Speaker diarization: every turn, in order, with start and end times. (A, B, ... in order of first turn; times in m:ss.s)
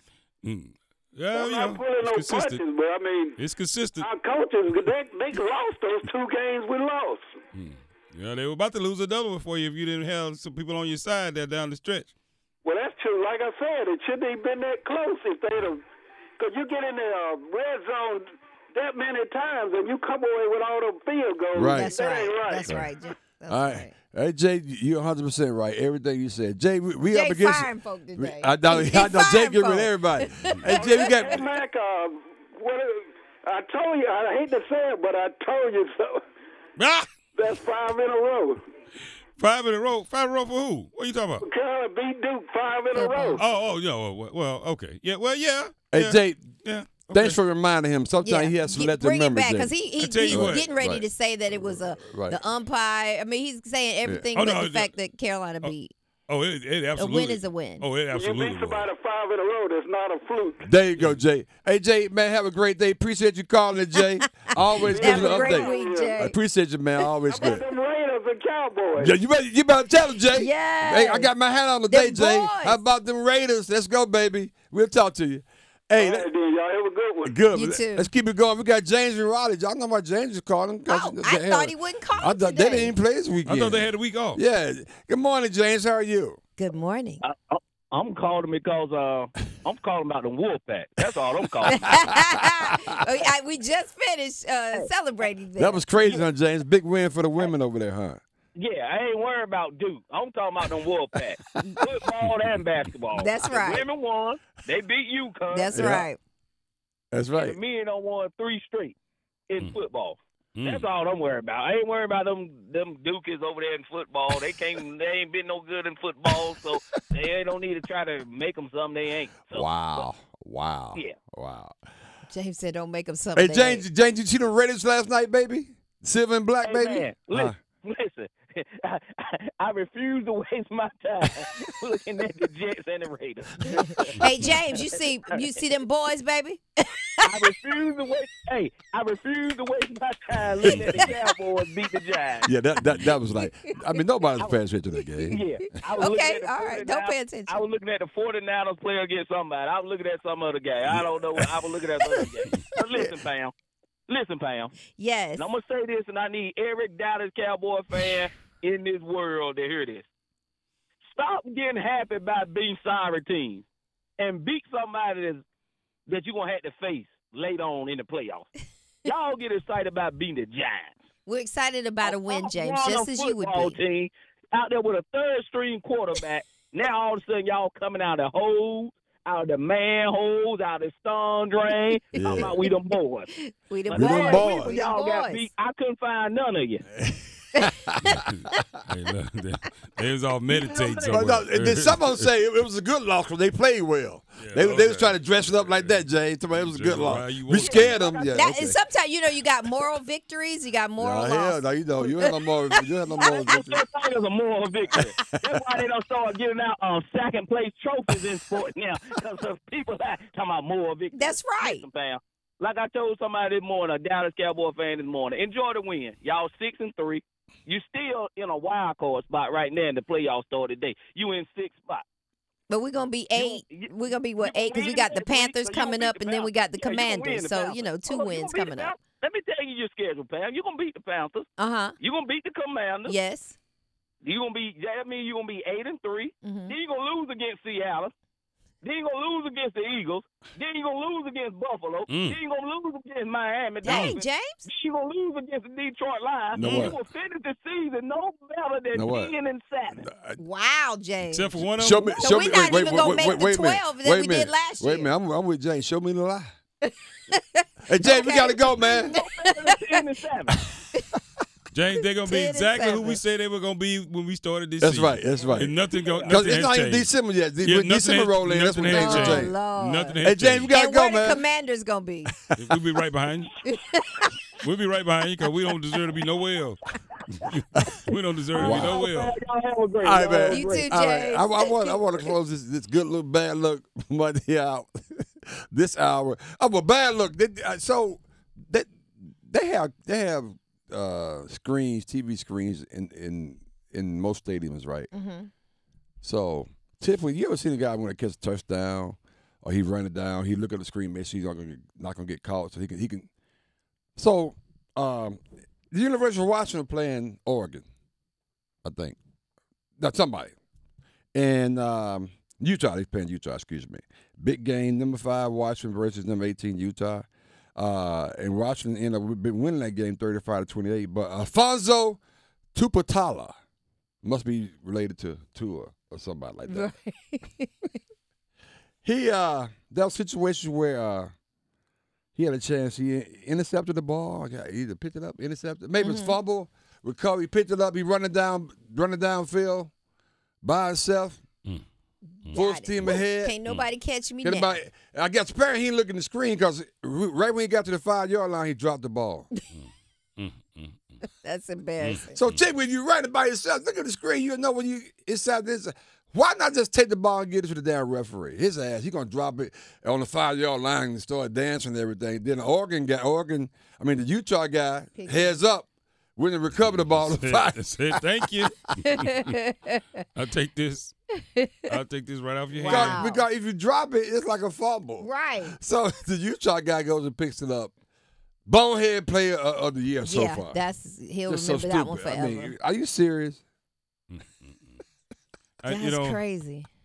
0:00.4-0:02.6 A
0:01.3-0:03.4 B
0:03.4-0:04.1 A
0:04.0-0:07.4 B
0:07.5-0:12.1 A
0:12.6-0:15.8 B
0:16.4-0:22.7 B
0:21.5-0:21.9 C
0:21.7-0:23.9 D
0:23.5-0:31.5 C
0:27.1-0:31.4 D
0:30.6-0:36.2 B
0:36.8-0:37.1 A
0:37.4-0:38.6 B
0:39.4-0:41.5 A
0:41.4-0:43.4 B
0:42.9-0:43.4 D
0:43.4-0:47.4 A
0:45.9-0:46.4 C
0:47.1-0:49.8 C
0:48.2-0:55.9 D
0:50.0-0:50.7 A
0:50.3-0:52.4 C
0:54.4-0:55.0 A
0:56.3-0:58.9 A
0:57.0-0:57.9 D
0:58.1-1:00.7 B
1:00.6-1:07.6 C
1:04.9-1:06.2 B
1:04.9-1:06.4 D
1:07.3-1:09.2 B
1:09.0-1:16.3 C
1:10.3-1:11.3 D
1:11.9-1:12.8 D
1:16.0-1:17.3 B
1:17.2-1:26.4 C
1:17.5-1:18.1 D
1:20.9-1:23.0 D
1:23.5-1:24.4 A
1:26.6-1:27.2 D
1:27.2-1:31.9 E
1:31.6-1:32.7 C
1:31.7-1:35.9 D
1:35.6-1:38.2 C
1:38.6-1:46.0 E
1:43.1-1:43.9 D
1:45.5-1:46.2 D
1:45.7-1:46.1 C
1:47.1-1:47.6 C
1:47.4-1:49.0 E
1:49.5-2:00.1 E
1:50.6-1:50.9 A
1:59.5-2:01.8 C
2:02.3-2:03.9 D
2:03.4-2:07.6 C
2:06.6-2:14.2 E
2:13.7-2:17.5 D
2:17.2-2:22.5 E
2:20.6-2:20.9 C
2:22.4-2:25.4 C
2:25.3-2:33.5 E
2:26.0-2:27.6 D
2:34.1-2:34.7 E
2:34.9-2:35.5 D
2:35.4-2:40.1 E
2:41.1-2:43.6 E
2:44.2-2:45.4 E
2:46.1-2:48.5 E
2:49.0-2:50.9 E
2:51.3-2:53.8 D
2:52.0-3:03.3 E
3:02.1-3:02.8 D
3:02.2-3:02.6 C
3:03.3-3:05.5 D
3:03.9-3:06.8 E
3:03.9-3:04.8 C
3:07.0-3:08.2 C
3:08.0-3:12.3 A
3:10.5-3:11.5 E
3:11.1-3:18.8 C
3:14.4-3:18.0 A
3:17.6-3:18.5 E
3:18.3-3:22.3 D
3:21.0-3:23.8 C
3:23.2-3:42.0 E
3:24.9-3:25.8 C
3:31.1-3:31.9 D
3:42.7-3:48.9 D
3:43.4-3:53.2 E
3:51.6-3:52.0 D
3:53.1-3:53.6 D
3:54.2-3:58.1 E
3:56.4-3:56.8 D
3:58.8-4:10.0 E
4:02.1-4:02.4 A
4:03.8-4:04.7 D
4:03.9-4:04.2 C
4:06.5-4:07.0 C
4:06.6-4:06.9 A
4:08.9-4:09.3 C
4:10.0-4:10.4 C
4:10.4-4:11.7 D
4:11.2-4:12.3 A
4:11.8-4:16.5 C
4:12.2-4:15.1 D
4:16.8-4:20.0 D
4:17.9-4:19.2 C
4:19.0-4:20.6 E
4:21.7-4:30.7 A
4:22.2-4:23.2 D
4:24.8-4:25.8 C
4:25.4-4:26.4 D
4:26.3-4:29.6 C
4:28.9-4:32.3 D
4:30.2-4:31.5 C
4:32.6-4:33.5 A
4:33.7-4:34.3 D
4:34.6-4:36.8 A
4:37.4-4:39.4 A
4:38.5-4:40.9 E
4:38.6-4:39.0 C
4:40.0-4:55.1 C
4:40.5-4:42.0 D
4:55.1-4:55.5 D
4:56.2-5:03.3 C
5:04.2-5:07.8 C
5:08.8-5:09.2 C
5:10.0-5:10.5 C
5:11.3-5:22.2 C
5:22.8-5:23.5 C
5:24.2-5:26.9 C
5:26.7-5:27.8 D
5:29.0-5:31.3 C
5:32.4-5:39.9 C
5:36.0-5:36.4 D
5:40.6-5:41.4 C
5:42.4-5:44.8 D
5:42.5-5:43.6 C
5:44.4-5:49.5 C
5:50.4-5:51.0 A
5:51.4-5:52.4 D
5:52.0-5:52.6 A
5:52.3-6:08.7 C
6:05.2-6:05.6 D
6:07.1-6:09.5 A
6:09.1-6:10.0 D
6:10.4-6:11.2 A
6:11.8-6:13.2 A
6:12.7-6:13.5 D
6:12.8-6:17.9 C
6:15.2-6:15.8 D
6:18.7-6:20.8 C
6:20.2-6:22.7 D
6:21.5-6:23.6 C
6:24.3-6:25.0 A
6:25.8-6:26.4 A
6:25.8-6:26.9 D